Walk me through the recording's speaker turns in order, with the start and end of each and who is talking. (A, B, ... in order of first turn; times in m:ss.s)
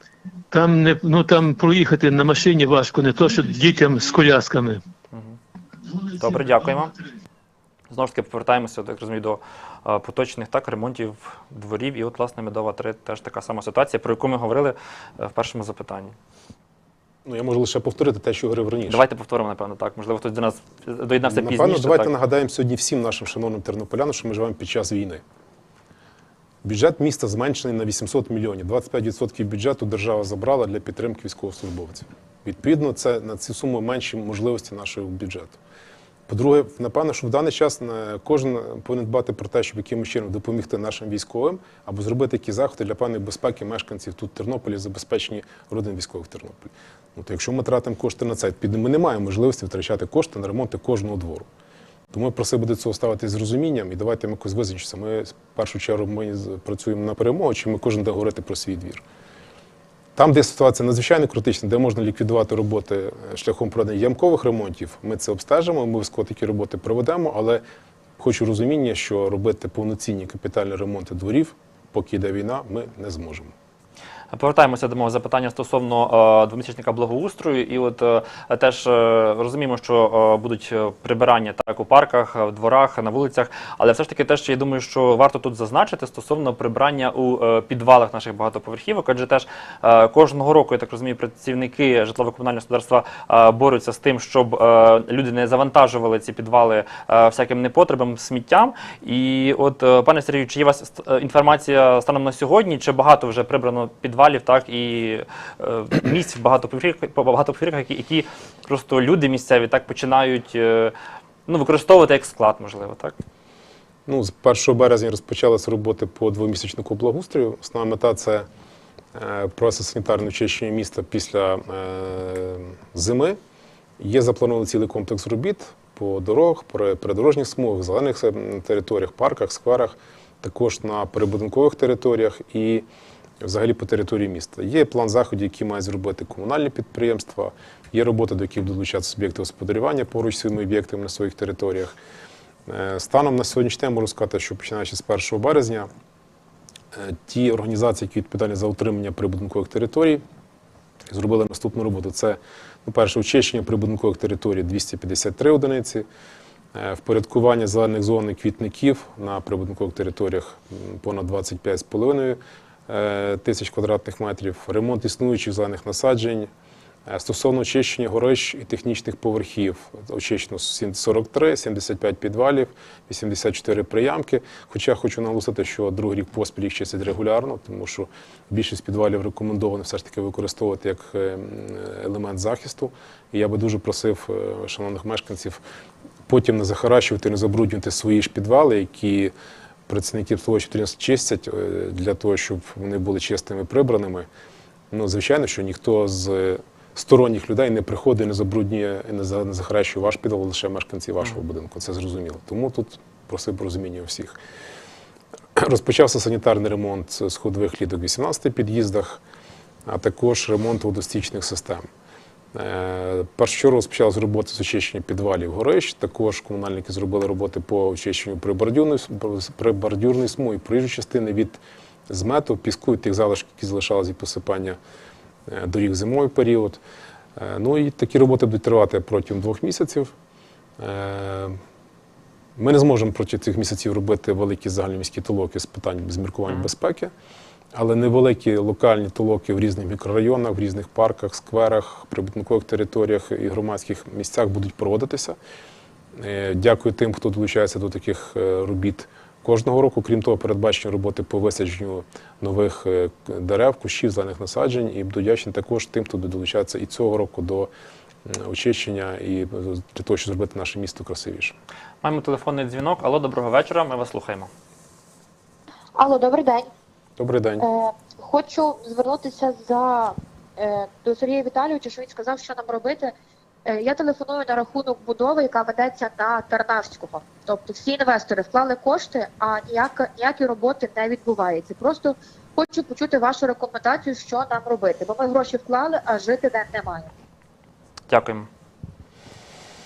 0:00.5-0:04.8 A
0:06.1-0:06.9 B
0:07.9-0:16.1 B
0:17.2-0:19.0 C
0:18.9-0:22.1 B
0:21.2-0:25.2 C
0:26.6-0:35.6 C
0:36.3-0:51.5 C
0:52.1-0:59.0 C
1:00.1-1:07.6 C
1:08.2-1:13.5 C
1:14.3-1:50.9 B
1:51.5-1:53.1 B
1:54.0-1:58.5 C
1:59.1-2:03.4 C
2:04.0-2:12.8 C
2:13.4-2:22.0 C
2:22.6-2:25.9 C
2:26.9-2:30.2 C
2:31.1-2:36.0 C
2:36.7-2:46.5 C
2:47.1-3:05.6 C
3:06.3-3:09.3 C
3:09.9-3:14.3 C
3:14.9-3:24.4 C
3:25.5-3:29.2 C
3:29.8-3:31.8 C
3:32.5-3:44.8 C
3:45.5-3:46.8 C
3:47.4-3:50.1 C
3:50.8-3:51.6 C
3:52.6-3:57.1 C
3:57.7-4:05.4 C
4:06.1-4:17.7 C
4:18.2-4:21.6 C
4:22.0-4:24.5 B
4:26.0-4:26.7 D
4:27.2-4:27.6 C
4:27.6-4:33.1 D
4:33.6-4:47.1 D
4:48.1-4:48.5 B